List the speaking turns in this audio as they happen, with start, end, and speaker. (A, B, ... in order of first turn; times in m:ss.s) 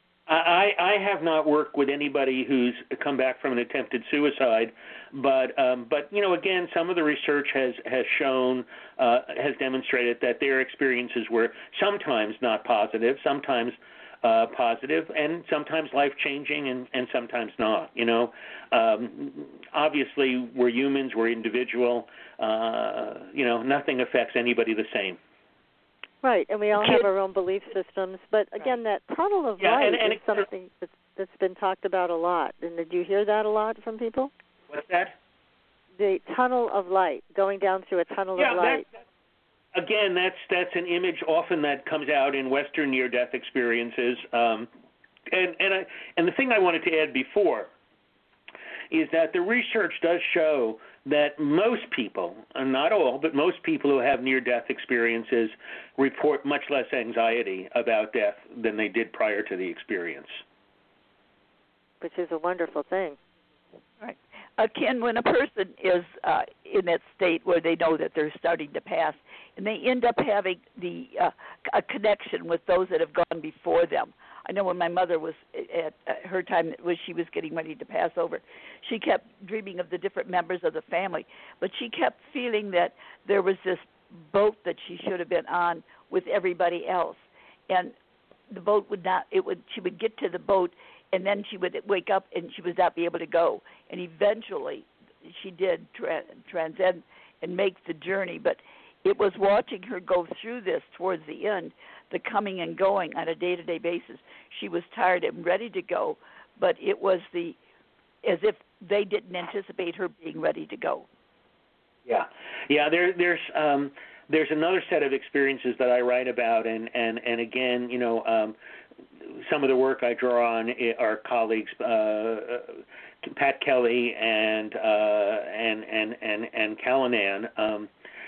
0:00.3-0:25.2 A
0:26.2-0:34.3 B
0:26.8-0:27.1 A
0:29.6-0:30.5 A
0:34.7-0:35.2 A
0:36.0-0:38.8 B
0:38.4-0:39.0 A
0:39.7-0:44.7 A
0:45.3-0:47.7 A
0:48.9-1:00.4 A
1:02.0-1:03.2 B
1:04.0-1:27.9 C
1:28.5-1:47.6 C
1:48.2-1:51.1 C
1:52.1-1:58.6 A
1:59.2-2:07.9 A